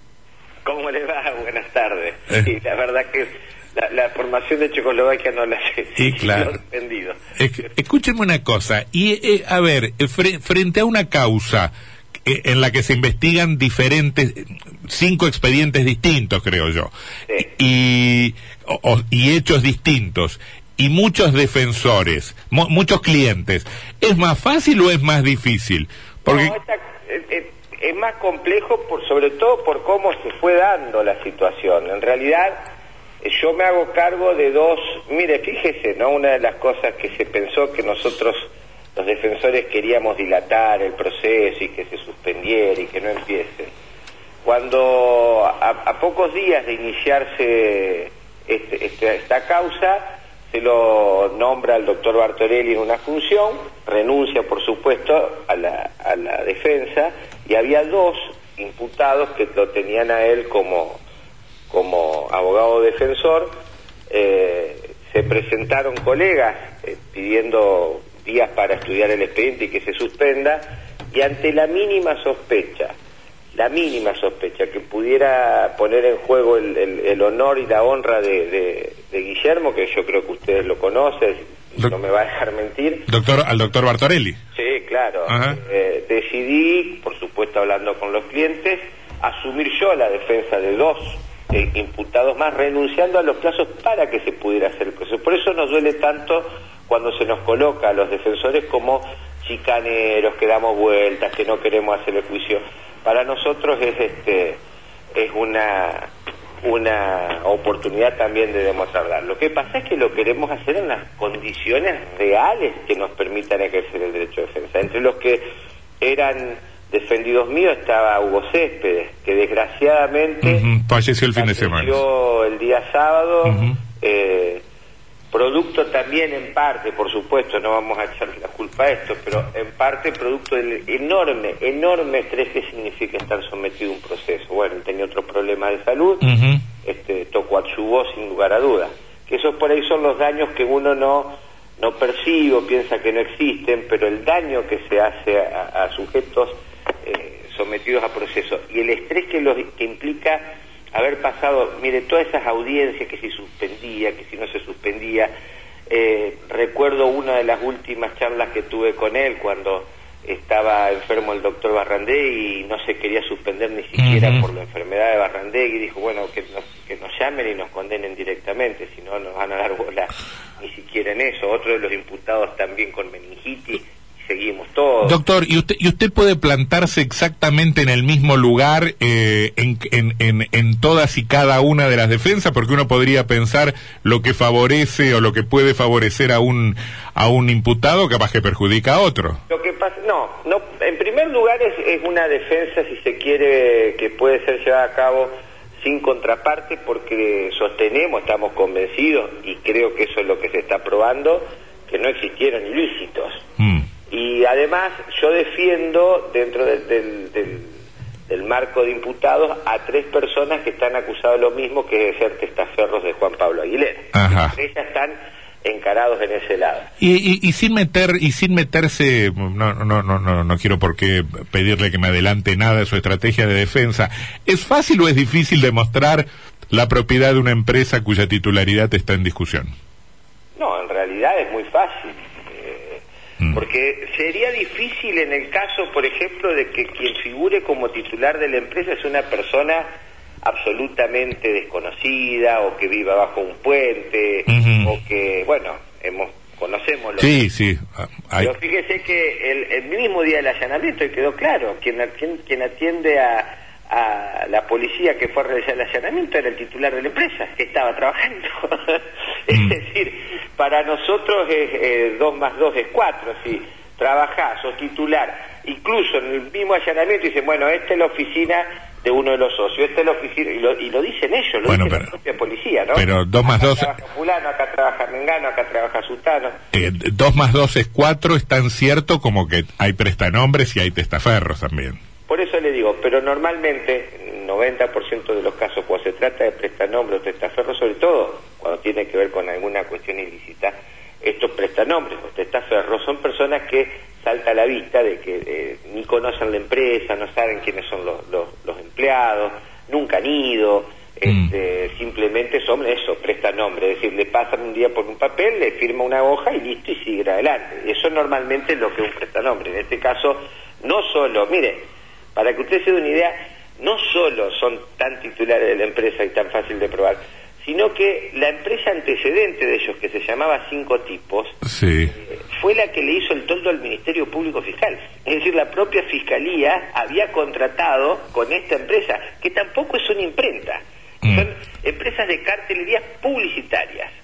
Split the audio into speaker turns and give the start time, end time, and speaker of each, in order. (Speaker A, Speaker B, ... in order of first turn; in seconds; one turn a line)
Speaker A: 0.6-7.2
Speaker B: 6.0-6.6
Speaker B: 7.3-11.7
Speaker B: 12.2-26.6
Speaker A: 26.2-32.6
Speaker A: 33.2-43.7
Speaker A: 44.4-61.0
Speaker A: 61.7-63.5
Speaker A: 64.1-72.9
Speaker A: 73.5-83.1
Speaker B: 83.1-84.4
Speaker A: 84.5-104.6
Speaker B: 85.3-85.6
Speaker A: 105.1-106.1
Speaker A: 106.6-115.4
Speaker A: 116.0-120.7
Speaker B: 120.4-122.0
Speaker A: 121.3-124.6
Speaker B: 123.4-123.8
Speaker A: 125.3-136.2
Speaker B: 136.2-136.6
Speaker A: 136.8-150.4
Speaker A: 150.9-155.3
Speaker A: 155.9-175.2
Speaker B: 164.0-164.4
Speaker B: 175.0-189.4
Speaker A: 189.5-203.4
Speaker B: 203.6-203.8
Speaker A: 204.1-207.7
Speaker A: 208.3-216.9
Speaker B: 214.1-214.6
Speaker B: 217.0-229.7
Speaker A: 230.6-239.8
Speaker A: 240.4-247.3
Speaker B: 244.5-244.9
Speaker B: 247.2-248.5
Speaker A: 248.4-276.5
Speaker B: 271.6-272.1
Speaker B: 272.9-273.9
Speaker B: 276.7-282.0
Speaker A: 282.3-311.8
Speaker A: 312.4-321.6
Speaker B: 321.6-322.1
Speaker A: 322.1-334.1